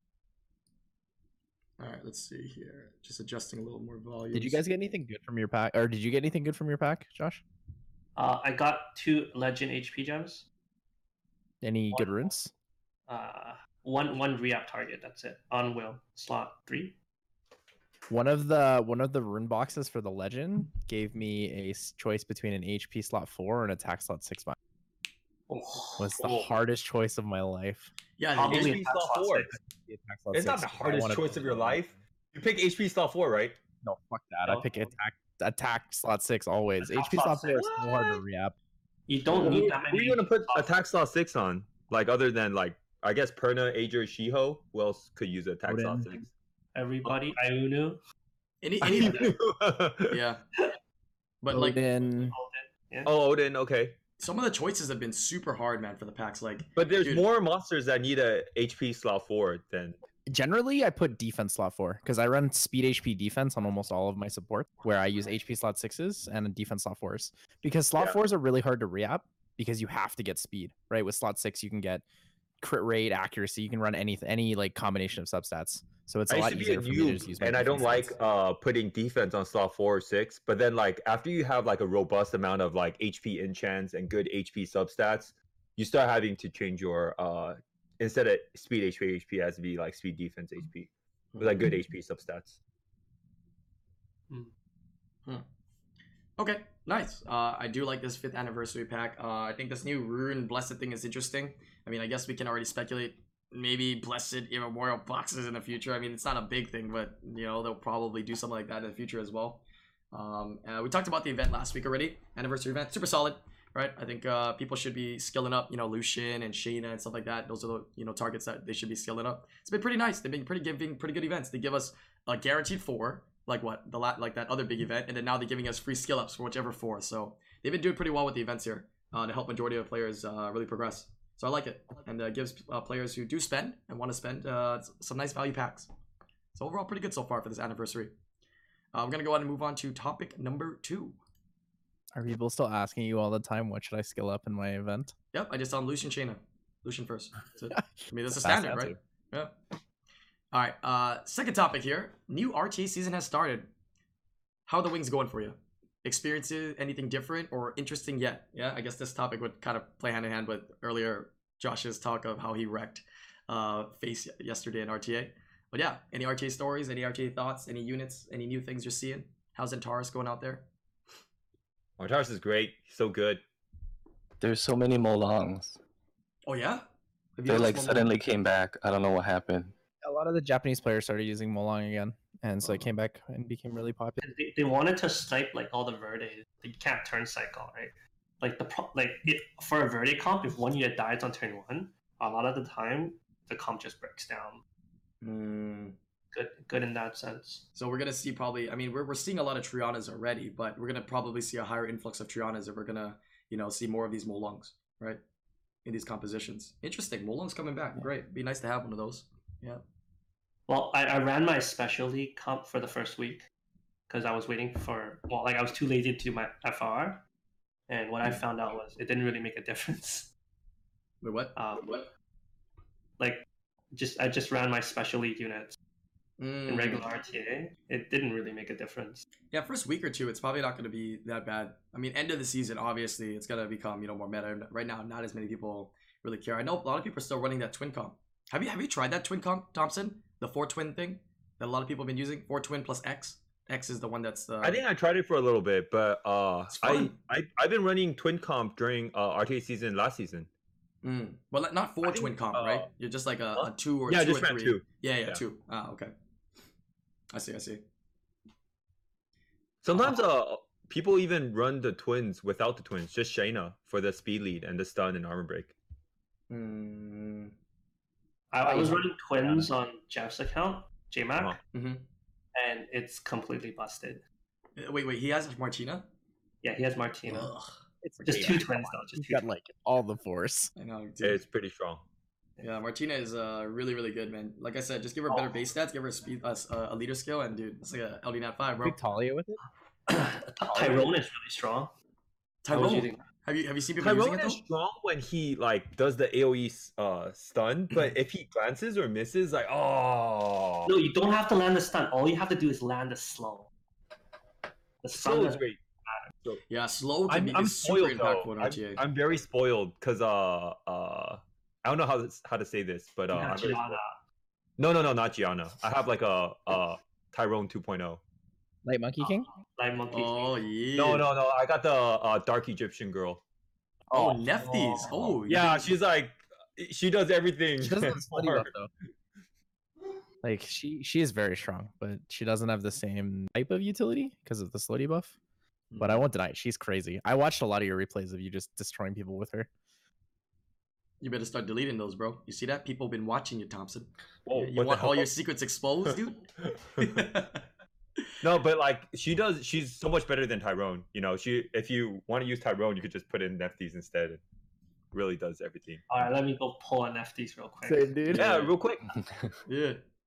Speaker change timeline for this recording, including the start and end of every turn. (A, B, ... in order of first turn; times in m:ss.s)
0:01.8-0:04.6 A
0:04.3-0:07.4 B
0:08.2-0:10.4 C
0:11.6-0:12.5 B
0:11.9-0:12.3 C
0:13.1-0:17.0 C
0:18.1-0:24.6 B
0:25.5-0:26.2 C
0:26.0-0:27.9 B
0:26.2-0:26.5 D
0:28.2-0:28.8 A
0:28.3-0:29.6 C
0:28.5-0:29.5 D
0:29.8-0:31.8 B
0:30.3-0:33.6 D
0:33.8-0:38.5 B
0:36.8-0:37.7 C
0:37.5-0:38.2 D
0:39.1-0:40.7 C
0:39.3-0:46.3 D
0:45.6-0:46.2 B
0:46.7-0:48.0 C
0:48.6-0:49.3 A
0:48.8-0:50.2 D
0:48.9-0:49.3 C
0:50.1-0:50.4 A
0:51.4-0:51.8 A
0:51.5-0:52.3 B
0:52.0-0:53.1 C
0:53.0-0:54.0 D
0:54.2-0:57.2 A
0:56.8-1:00.0 D
1:00.3-1:12.0 B
1:12.6-1:18.1 B
1:16.3-1:32.6 D
1:31.3-1:31.7 A
1:36.4-2:15.9 A
2:16.5-2:18.1 A
2:18.9-2:21.2 A
2:22.1-2:25.1 B
2:25.3-2:29.5 A
2:28.4-2:29.0 B
2:30.5-2:33.7 A
2:34.7-2:50.7 A
2:52.0-2:53.4 D
2:54.4-2:55.8 E
2:56.5-2:56.8 A
2:57.4-2:58.1 A
2:57.5-2:59.7 E
3:00.0-3:04.2 B
3:04.2-3:14.6 C
3:15.2-3:15.9 A
3:16.3-3:17.6 C
3:17.7-3:25.2 A
3:25.8-3:29.8 A
3:30.7-3:33.5 C
3:34.1-3:37.2 C
3:37.9-3:40.3 C
3:41.2-3:41.5 A
3:41.5-3:42.1 C
3:43.2-3:45.8 C
3:46.4-3:47.0 A
3:46.7-3:49.2 C
3:49.5-4:04.8 A
4:04.6-4:10.5 D
4:06.7-4:07.1 A
4:11.0-4:16.1 A
4:12.0-4:12.9 D
4:13.6-4:15.4 D
4:17.3-4:17.8 A
4:19.8-4:25.7 D
4:26.5-4:27.5 A
4:28.5-4:31.6 C
4:28.6-4:29.7 B
4:31.7-4:32.0 A
4:32.5-4:34.2 C
4:34.8-4:36.1 A
4:36.6-4:37.5 C
4:37.3-4:37.7 A
4:38.0-4:40.7 B
4:38.2-4:39.4 C
4:40.8-4:41.4 A
4:41.2-4:42.0 D
4:42.6-4:49.0 A
4:45.3-4:45.6 C
4:48.8-4:49.6 B
4:50.1-4:51.9 C
4:50.6-4:51.1 B
4:52.6-4:54.6 A
4:52.7-4:53.2 C
4:54.0-5:00.9 D
5:00.8-5:03.7 C
5:05.0-5:06.2 C
5:05.1-5:05.8 D
5:06.7-5:09.0 A
5:07.3-5:14.0 D
5:13.3-5:14.2 C
5:14.8-5:18.2 D
5:18.8-5:19.5 B
5:19.2-5:20.6 C
5:20.1-5:21.3 A
5:20.9-5:23.4 D
5:24.1-5:25.9 A
5:24.1-5:25.1 C
5:25.4-5:28.7 D
5:27.8-5:28.9 B
5:30.4-5:35.3 B
5:35.9-5:36.2 A
5:36.0-5:39.7 B
5:41.2-5:47.6 A
5:44.4-5:45.3 D
5:48.4-5:54.4 D
5:55.1-5:56.0 D
5:56.1-5:58.6 C
5:57.8-5:58.5 B
5:58.3-5:59.0 D
5:59.7-6:00.0 A